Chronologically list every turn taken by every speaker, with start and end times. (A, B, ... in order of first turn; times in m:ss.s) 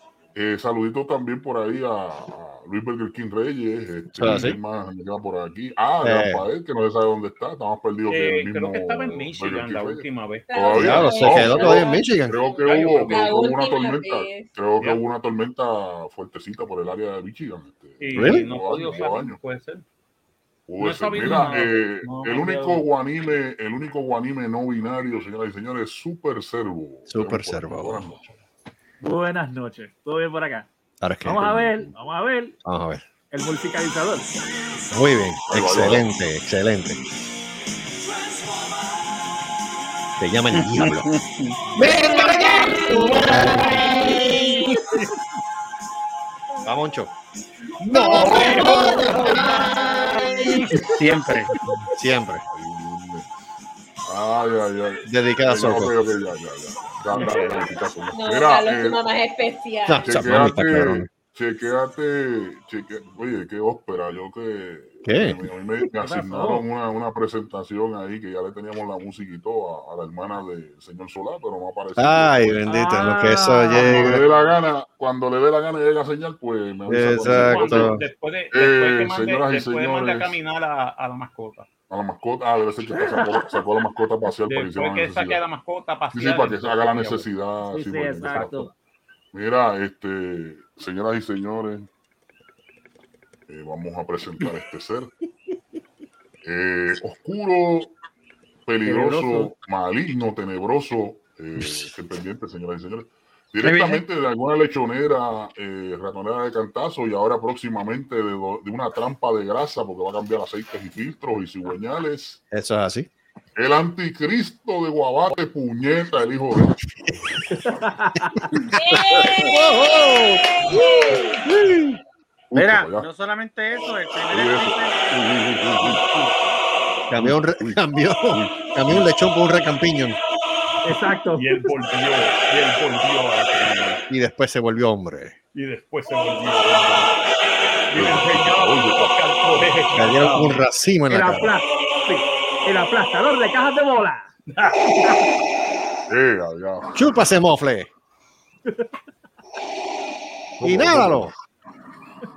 0:00.4-0:19.4 A
0:04.1-0:04.6 B
0:06.0-0:06.4 B
0:08.1-0:11.5 C
0:10.5-0:14.6 D
0:10.8-0:12.4 B
0:12.6-0:13.6 C
0:18.0-0:19.8 C
0:18.2-0:18.4 B
0:20.7-0:28.4 A
0:20.8-0:22.7 C
0:21.3-0:21.6 E
0:22.3-0:22.8 E
0:27.1-0:28.1 B
0:29.0-0:30.7 E
0:31.0-0:31.6 B
0:31.2-0:32.6 E
0:31.5-0:31.9 A
0:32.6-0:33.0 B
0:33.3-0:34.3 E
0:34.9-0:37.0 B
0:35.5-0:36.0 A
0:40.2-0:41.1 B
0:40.7-0:41.5 F
0:41.8-0:44.4 B
0:41.9-0:44.8 D
0:46.6-0:47.1 B
0:47.8-0:50.6 B
0:48.1-0:49.1 C
0:48.2-0:49.7 D
0:50.9-0:51.5 F
0:52.0-0:52.4 B
0:52.5-0:53.3 A
0:54.1-0:59.0 A
0:55.1-0:56.0 B
0:57.1-0:57.6 C
0:58.1-1:00.4 D
0:59.9-1:01.1 B
1:00.0-1:12.7 A
1:05.0-1:05.4 B
1:05.8-1:06.6 E
1:12.0-1:14.2 B
1:12.7-1:14.4 E
1:13.7-1:18.0 A
1:16.9-1:18.0 B
1:17.2-1:21.7 C
1:18.5-1:20.4 A
1:21.9-1:25.4 A
1:23.0-1:23.5 E
1:24.5-1:27.3 C
1:26.1-1:28.7 A
1:27.7-1:28.7 E
1:29.3-1:31.9 A
1:33.5-1:35.1 A
1:36.4-1:38.0 A
1:38.7-1:52.4 A
1:38.9-1:39.5 F
1:43.6-1:44.0 F
1:52.5-1:53.1 B
1:53.6-1:56.8 A
1:57.5-1:58.5 E
1:58.7-2:01.5 D
1:58.9-2:02.0 B
2:02.5-2:03.1 A
2:02.6-2:06.3 F
2:04.3-2:06.0 A
2:07.1-2:10.2 B
2:07.2-2:09.1 A
2:10.8-2:11.7 E
2:11.4-2:14.0 C
2:14.1-2:15.4 B
2:15.5-2:17.2 C
2:17.9-2:20.6 C
2:17.9-2:19.1 A
2:20.0-2:21.5 B
2:21.1-2:24.3 E
2:24.5-2:25.1 C
2:24.9-2:25.2 E
2:26.1-2:27.1 A
2:27.0-2:27.9 B
2:30.6-2:31.3 A
2:30.6-2:31.3 B